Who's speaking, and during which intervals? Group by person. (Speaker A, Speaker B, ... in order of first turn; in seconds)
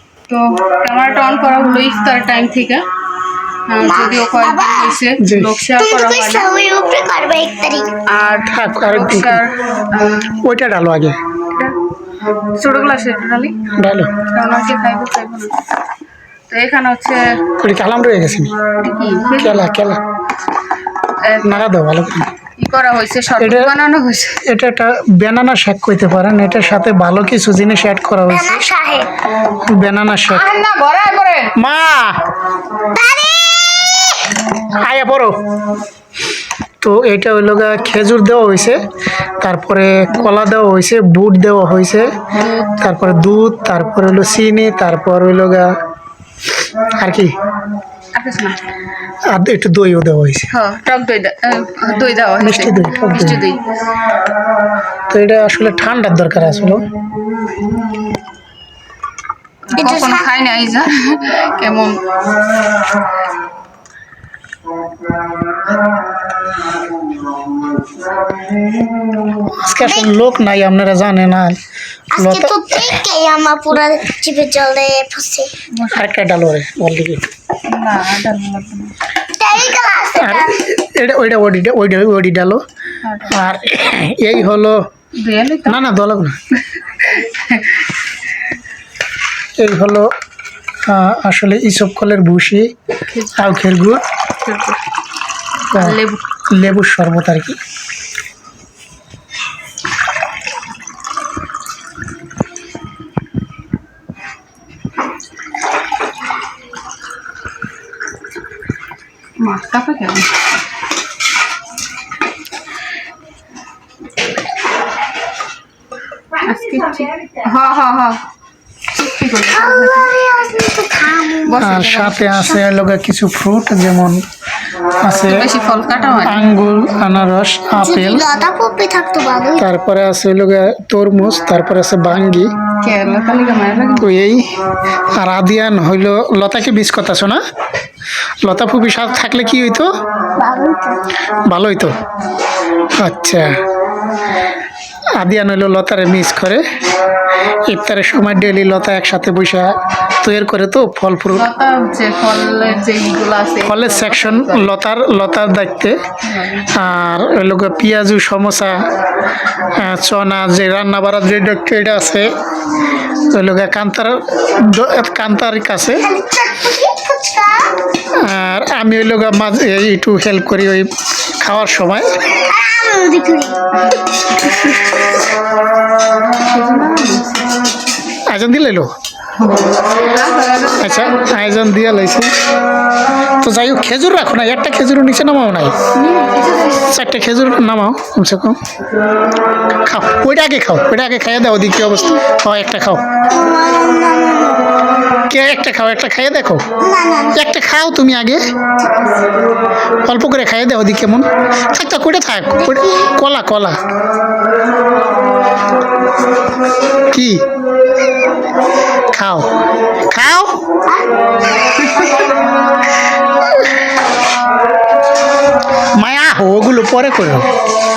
Speaker A: 0.3-2.8, 3.7-6.5, 8.1-10.3, 12.5-13.6, 14.3-15.5, 16.5-17.2, 18.8-19.6, 21.2-21.7, 22.6-24.4, 30.3-31.5, 42.3-42.7, 48.1-48.6, 50.5-53.6, 59.7-62.0, 75.7-76.1, 77.7-79.0, 83.0-83.5, 85.2-85.8, 86.5-87.9, 93.1-93.5, 94.4-94.8, 95.7-96.2, 109.4-110.3, 116.4-118.2, 118.9-120.1, 121.4-122.5, 125.2-126.5, 132.8-134.1, 140.4-140.8, 151.3-154.7, 156.2-156.7, 173.7-174.9, 176.3-177.6, 179.4-181.4, 185.9-187.0
Speaker B: 3.8-4.9, 5.7-7.9, 28.3-29.1, 32.9-34.1, 59.7-60.3, 69.8-70.1, 72.1-75.5, 79.3-80.6, 119.5-121.7, 122.3-122.6, 127.7-129.7, 166.0-167.7, 172.3-173.6, 191.8-192.2, 193.3-194.6, 196.8-197.5, 202.6-203.1
Speaker C: 5.2-5.5, 8.4-9.4, 10.4-11.2, 13.7-14.1, 17.6-18.5, 19.4-20.0, 21.4-22.3, 23.4-23.7, 24.4-28.7, 29.6-30.5, 31.6-32.2, 34.7-35.4, 36.8-38.8, 39.4-42.1, 42.7-45.7, 46.9-47.3, 49.3-50.5, 52.4-53.4, 55.1-56.8, 69.4-71.6, 72.1-72.9, 75.9-77.3, 80.2-82.6, 83.3-84.8, 85.7-86.4, 89.6-90.1, 90.8-92.7, 93.3-94.0, 96.5-97.6, 121.6-124.2, 125.0-125.5, 126.2-128.3, 129.6-132.5, 134.0-134.5, 135.2-137.4, 138.4-139.9, 141.3-142.0, 143.0-143.6, 145.2-146.6, 147.5-151.5, 153.6-156.0, 156.7-158.8, 159.5-162.3, 163.1-166.1, 168.1-172.1, 178.3-178.9, 180.8-182.3, 183.4-185.7, 186.9-188.6, 189.8-193.0, 195.3-196.7, 197.3-198.5, 200.0-203.8, 207.1-207.4, 209.1-209.5, 210.1-210.6, 216.0-217.5